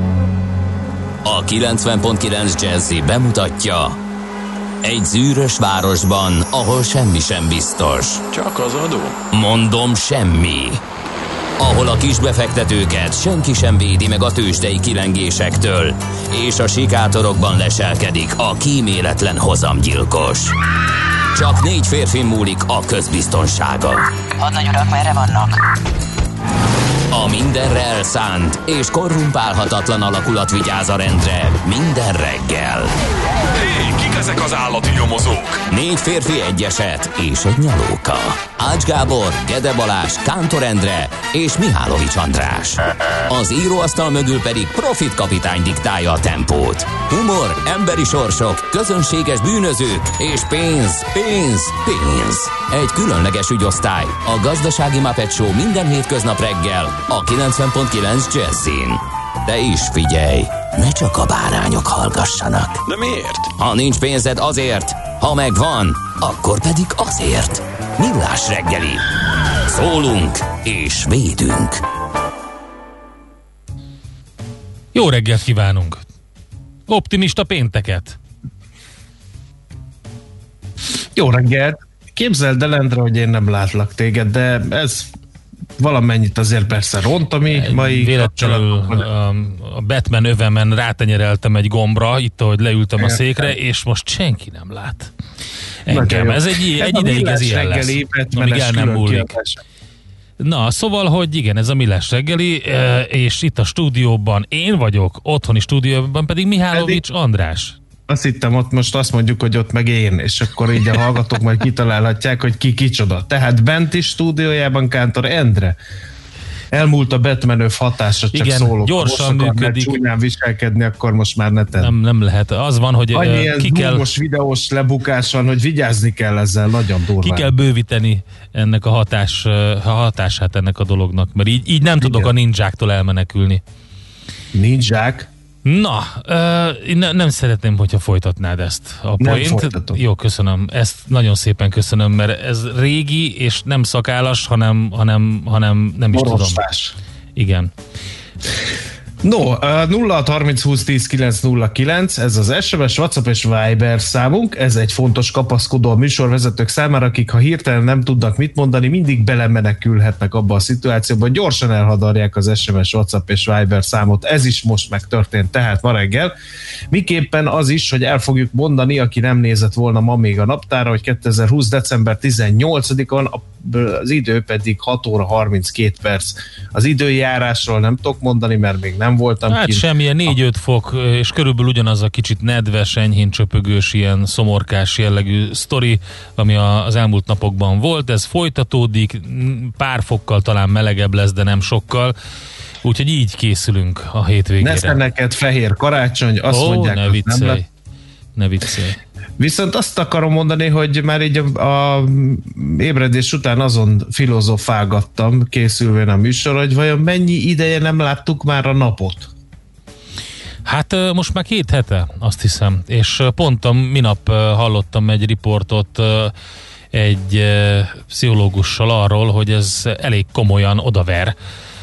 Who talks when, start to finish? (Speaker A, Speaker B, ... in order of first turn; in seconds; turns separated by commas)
Speaker A: 1.2-4.0, Speaker A: 4.8-8.2, Speaker B: 8.4-9.1, Speaker A: 9.3-10.8, Speaker A: 11.6-20.6, Speaker A: 21.3-25.6, Speaker A: 27.1-33.0, Speaker B: 33.9-35.4, Speaker A: 35.7-62.8, Speaker A: 63.5-69.0, Speaker A: 69.7-71.8, Speaker C: 74.9-76.0, Speaker C: 76.9-78.2, Speaker D: 81.2-85.1, Speaker D: 85.8-89.1, Speaker C: 87.5-95.1, Speaker D: 93.0-93.5, Speaker C: 95.8-99.3, Speaker D: 95.9-99.6, Speaker C: 100.4-107.8, Speaker D: 106.7-107.0, Speaker D: 108.1-115.8, Speaker D: 116.7-121.9, Speaker C: 118.3-120.0, Speaker C: 121.8-124.1, Speaker D: 123.1-127.5, Speaker C: 127.2-133.6, Speaker D: 132.0-132.3, Speaker D: 134.5-135.3, Speaker C: 135.6-146.6, Speaker D: 139.2-140.0, Speaker D: 146.1-146.9, Speaker C: 147.3-147.7, Speaker D: 149.2-166.3, Speaker D: 166.9-179.8, Speaker C: 179.5-192.1, Speaker C: 192.8-195.0, Speaker D: 194.6-197.6, Speaker C: 196.5-197.7, Speaker C: 198.3-199.0, Speaker D: 199.4-209.3, Speaker C: 210.7-216.3, Speaker C: 216.9-221.3